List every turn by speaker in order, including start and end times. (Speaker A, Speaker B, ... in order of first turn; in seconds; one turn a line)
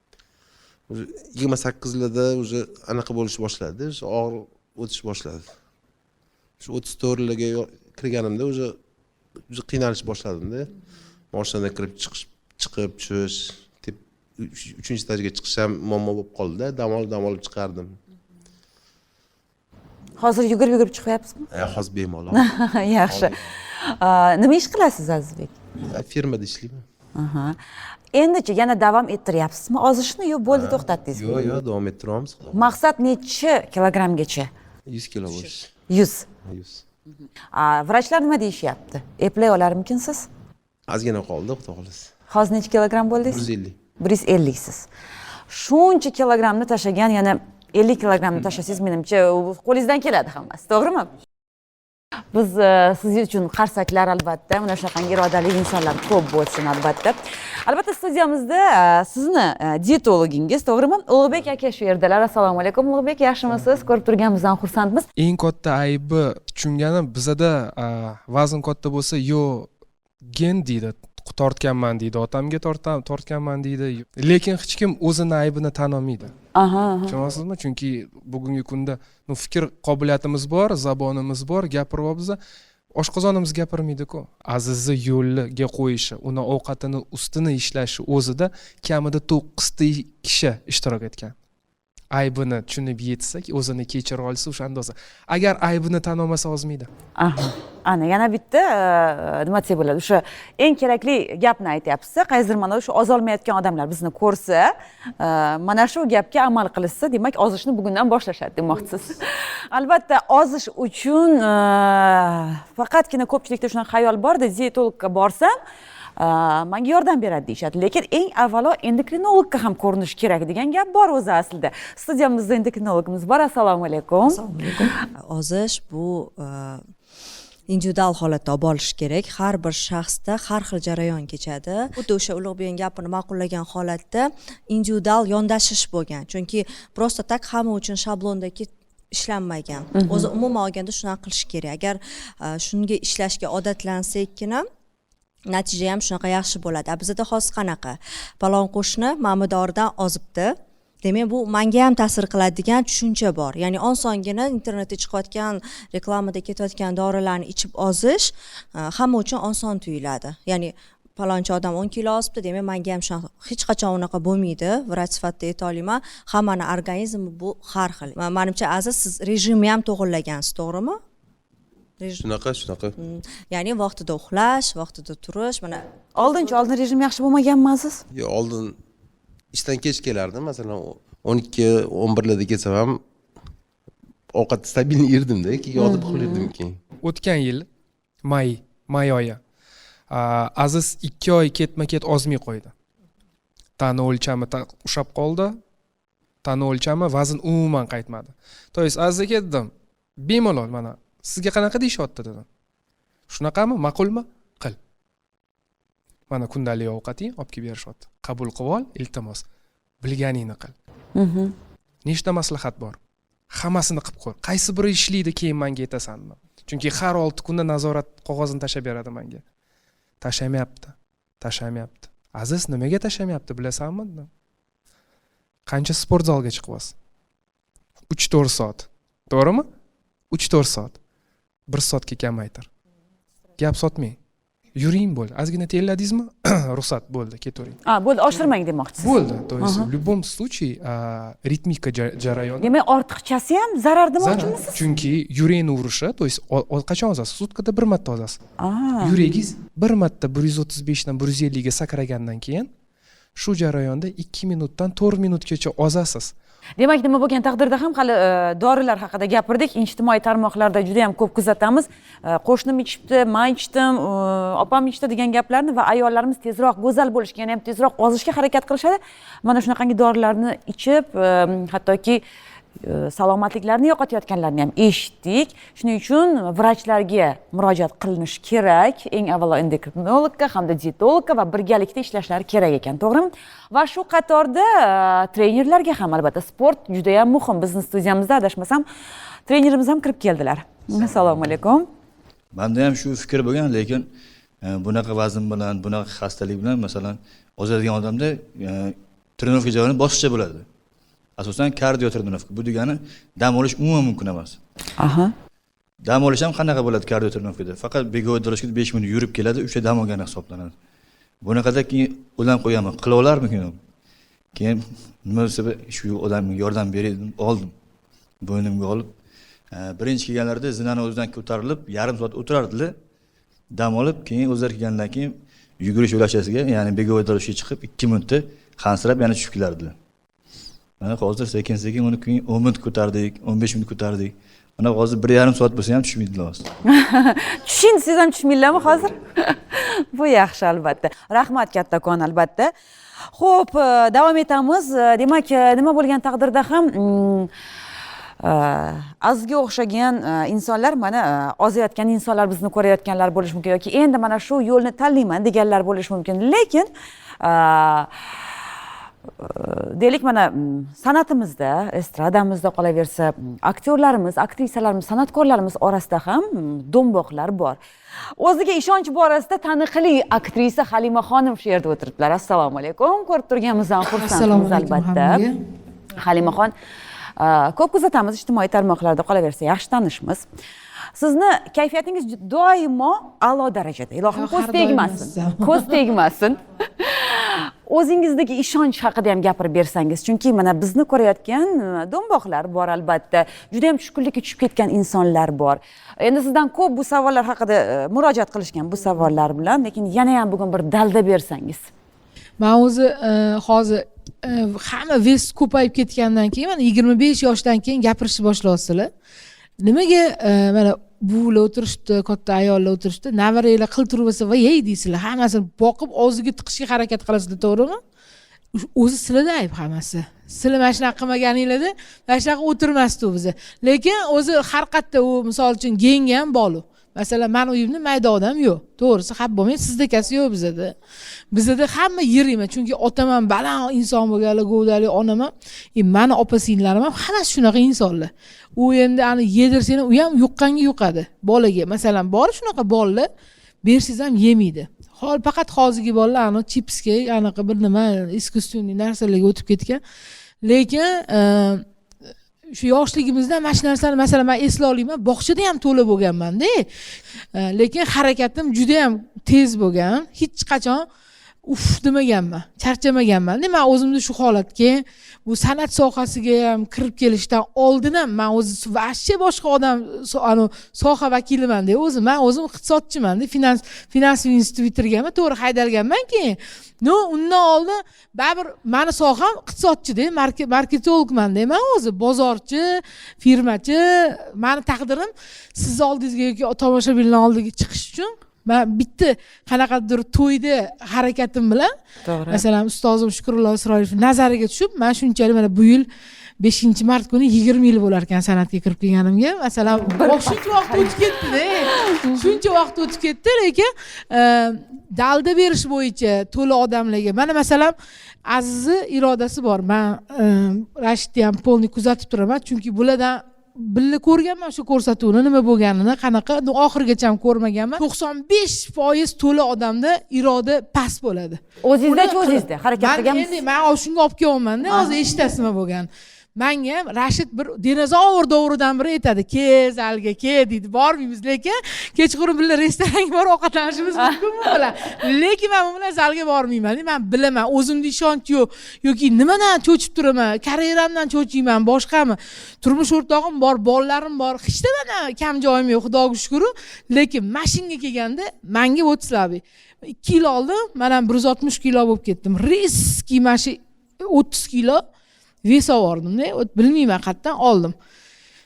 Speaker A: 0.9-5.5
Speaker A: 6.6-8.8
Speaker A: 9.5-10.7
Speaker A: 11.3-18.0
Speaker B: 20.2-21.5
Speaker A: 21.5-22.4
Speaker B: 22.3-25.6
Speaker A: 23.1-23.4
Speaker A: 25.9-26.8
Speaker B: 27.2-27.6
Speaker B: 28.1-31.3
Speaker A: 30.5-32.7
Speaker B: 32.5-34.5
Speaker A: 34.9-35.7
Speaker B: 35.9-36.3
Speaker A: 36.5-36.8
Speaker B: 37.5-40.3
Speaker A: 40.9-42.1
Speaker B: 42.3-43.5
Speaker A: 43.3-43.8
Speaker B: 44.0-44.9
Speaker B: 45.5-51.1
Speaker B: 52.3-65.0
Speaker C: 65.2-69.7
Speaker C: 70.3-76.3
Speaker B: 76.5-77.2
Speaker C: 77.1-82.4
Speaker C: 83.0-91.3
Speaker C: 92.1-96.9
Speaker B: 97.2-115.5
Speaker B: 116.2-124.4
Speaker D: 124.2-126.8
Speaker D: 127.7-144.7
Speaker B: 139.9-140.3
Speaker D: 145.5-171.0
Speaker D: 172.0-172.3
Speaker A: 172.2-172.9
Speaker D: 173.0-175.8
Speaker B: 176.2-178.0
Speaker A: 178.2-178.8
Speaker A: 179.5-183.0
Speaker A: 184.3-186.8
Speaker B: 185.8-186.5
Speaker C: 187.0-187.7
Speaker C: 188.2-189.4
Speaker C: 190.1-192.7
Speaker C: 193.8-195.6
Speaker C: 196.4-202.4
Speaker C: 203.3-204.8
Speaker C: 206.3-209.4
Speaker C: 210.0-210.7
Speaker B: 211.2-211.5
Speaker C: 212.1-213.0
Speaker C: 213.5-219.4
Speaker C: 220.2-224.3
Speaker C: 225.7-226.9
Speaker C: 228.1-229.7
Speaker C: 230.3-231.0
Speaker C: 231.7-232.7
Speaker C: 233.6-234.2
Speaker C: 234.8-237.8
Speaker B: 237.9-239.9
Speaker C: 239.0-242.7
Speaker B: 242.6-244.8
Speaker C: 244.2-248.4
Speaker B: 248.6-249.2
Speaker C: 249.0-252.7
Speaker C: 253.4-256.3
Speaker B: 256.8-272.2
Speaker B: 272.8-288.8
Speaker B: 289.5-291.9
Speaker E: 292.5-294.1
Speaker E: 294.6-300.7
Speaker E: 301.4-304.6
Speaker B: 305.0-305.3
Speaker E: 306.0-310.7
Speaker E: 311.4-313.8
Speaker E: 314.6-317.7
Speaker E: 318.4-319.1
Speaker E: 319.7-322.9
Speaker E: 323.8-329.9
Speaker E: 331.0-336.7
Speaker B: 336.9-342.7
Speaker B: 343.4-347.5
Speaker B: 348.4-356.9
Speaker B: 357.4-358.1
Speaker B: 359.4-367.8
Speaker B: 368.4-375.4
Speaker F: 374.1-375.6
Speaker B: 376.2-376.7
Speaker B: 377.4-380.4
Speaker B: 381.2-401.8
Speaker F: 384.3-385.9
Speaker F: 402.6-409.1
Speaker F: 409.8-418.0
Speaker F: 418.8-430.9
Speaker F: 431.5-443.3
Speaker F: 443.8-450.0
Speaker F: 450.6-451.9
Speaker F: 452.7-456.9
Speaker F: 457.5-461.1
Speaker F: 461.6-491.9
Speaker B: 492.2-492.6
Speaker F: 492.5-496.1
Speaker F: 496.6-507.9
Speaker B: 500.1-501.3
Speaker B: 501.9-502.5
Speaker F: 508.5-555.0
Speaker B: 521.8-523.6
Speaker F: 555.6-557.9